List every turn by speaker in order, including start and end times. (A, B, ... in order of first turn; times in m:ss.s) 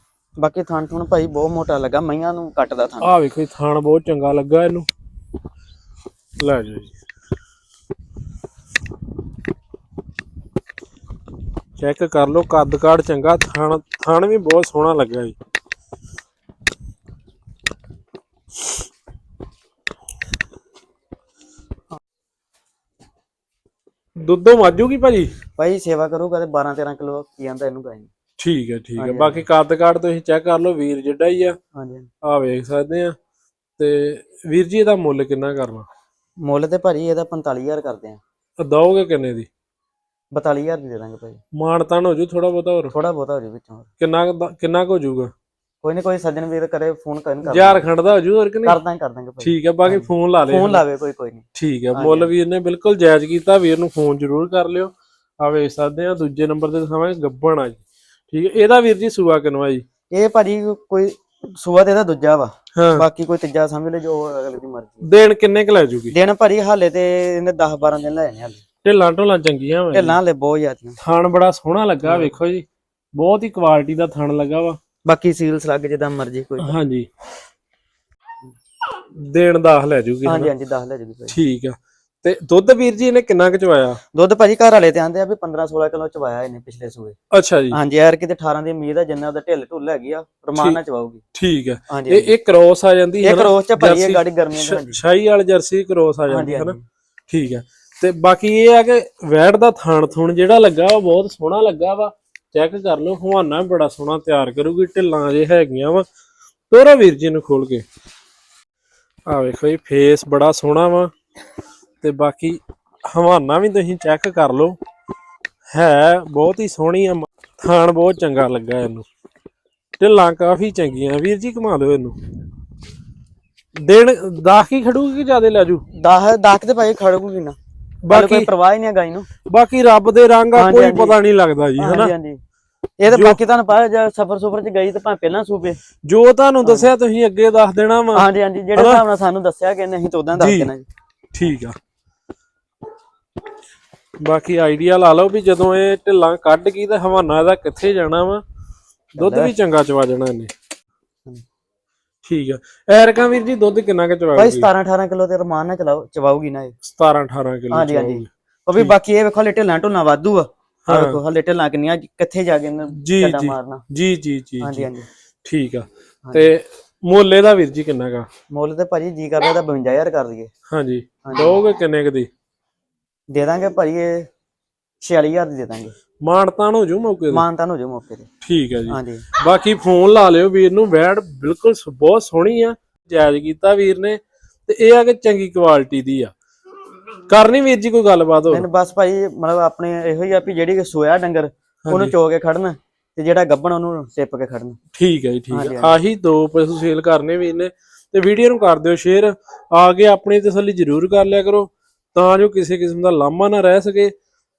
0:00.4-0:03.1 A
0:03.0-0:04.9 B
0:06.4-0:07.0 B
0:11.8-0:15.3 B
0:24.2-0:25.3 B
0:25.6-0:28.1 A
0:28.4-0:31.6 B
0:29.0-0:29.4 A
0:31.7-0:32.1 A
0:32.2-0:33.2 B
0:33.8-0:35.9 B
0:36.4-0:38.2 A
0:38.6-0:39.5 B
0:40.3-0:41.4 A
0:41.5-0:42.9 B
0:42.9-0:43.9 A
0:44.0-0:45.3 B
0:45.8-0:47.8 A
0:47.4-0:48.8 B
0:48.6-0:52.3 A
0:49.4-0:50.8 B
0:51.5-0:59.8 B
1:00.1-1:05.0 A
1:02.8-1:03.0 B
1:05.0-1:06.1 B
1:06.1-1:08.6 A
1:08.8-1:10.2 B
1:09.9-1:11.0 A
1:11.0-1:14.8 B
1:12.0-1:12.3 A
1:15.0-1:16.7 A
1:16.6-1:17.1 B
1:18.9-1:20.5 B
1:20.2-1:21.4 A
1:21.3-1:24.0 B
1:24.1-1:27.2 A
1:27.3-1:27.8 B
1:27.7-1:31.2 A
1:31.3-1:36.8 B
1:31.9-1:32.3 A
1:33.2-1:35.0 A
1:36.3-1:36.8 A
1:37.3-1:46.0 B
1:46.7-1:47.8 B
1:49.3-1:51.1 B
1:52.0-1:54.8 B
1:55.7-1:59.0 B
2:00.0-2:02.2 B
2:03.8-2:05.8 B
2:05.9-2:07.6 A
2:08.0-2:08.5 B
2:08.1-2:09.3 A
2:09.4-2:12.1 B
2:10.5-2:11.2 A
2:11.8-2:12.4 A
2:13.0-2:15.8 A
2:13.1-2:13.4 B
2:16.0-2:19.0 B
2:16.6-2:16.9 A
2:18.1-2:20.8 A
2:20.4-2:20.7 B
2:21.3-2:21.8 B
2:24.2-2:28.4 B
2:29.1-2:30.5 B
2:29.2-2:29.5 A
2:32.2-2:34.7 B
2:34.3-2:36.8 A
2:36.8-2:38.9 B
2:37.7-2:43.8 A
2:40.8-2:41.2 B
2:43.0-2:44.9 B
2:44.6-2:45.1 A
2:45.4-2:48.3 B
2:46.2-2:46.5 A
2:48.5-2:50.5 A
2:50.7-2:52.3 B
2:51.2-2:51.6 A
2:53.3-2:54.3 A
2:55.0-2:55.9 A
2:56.2-2:57.4 B
2:57.3-2:58.3 A
2:58.4-3:06.3 B
2:58.9-2:59.2 A
3:07.3-3:08.7 B
3:08.5-3:14.8 A
3:11.8-3:12.1 B
3:14.9-3:24.1 B
3:15.5-3:16.0 A